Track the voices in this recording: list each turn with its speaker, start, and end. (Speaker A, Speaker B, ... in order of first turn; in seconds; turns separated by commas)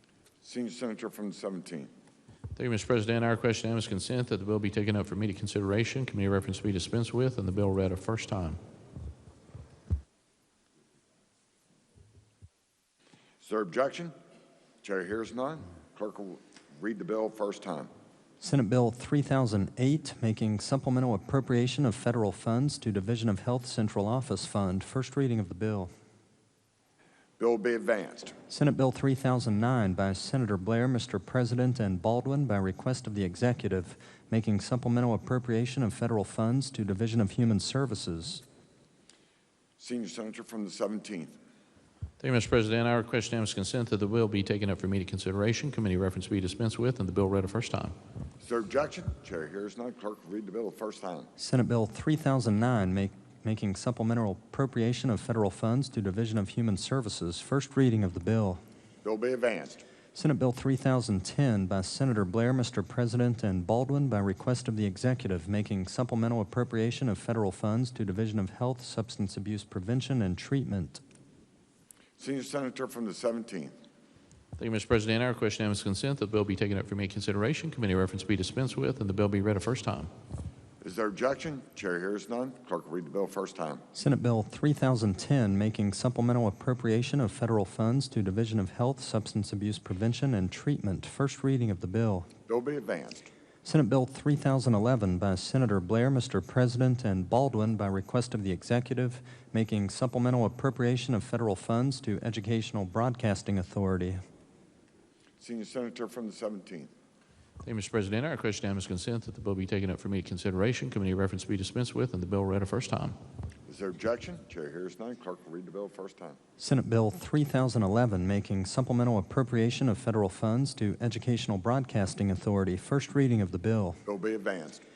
Speaker A: 0.4-1.9, Speaker B: 2.6-8.6, Speaker A: 13.4-14.2, Speaker A: 14.8-17.9, Speaker C: 18.4-25.9, Speaker A: 27.4-28.3, Speaker C: 28.5-38.4, Speaker A: 39.8-41.4, Speaker B: 42.2-48.0, Speaker A: 48.4-51.3, Speaker C: 51.4-58.6, Speaker A: 59.0-59.8, Speaker C: 60.1-71.0, Speaker A: 72.2-73.8, Speaker B: 74.6-80.1, Speaker A: 80.8-83.8, Speaker C: 83.9-92.3, Speaker A: 92.5-93.3, Speaker C: 93.7-104.2, Speaker A: 105.4-106.9, Speaker B: 107.6-113.2, Speaker A: 113.7-116.4, Speaker C: 116.6-124.0, Speaker A: 124.1-124.8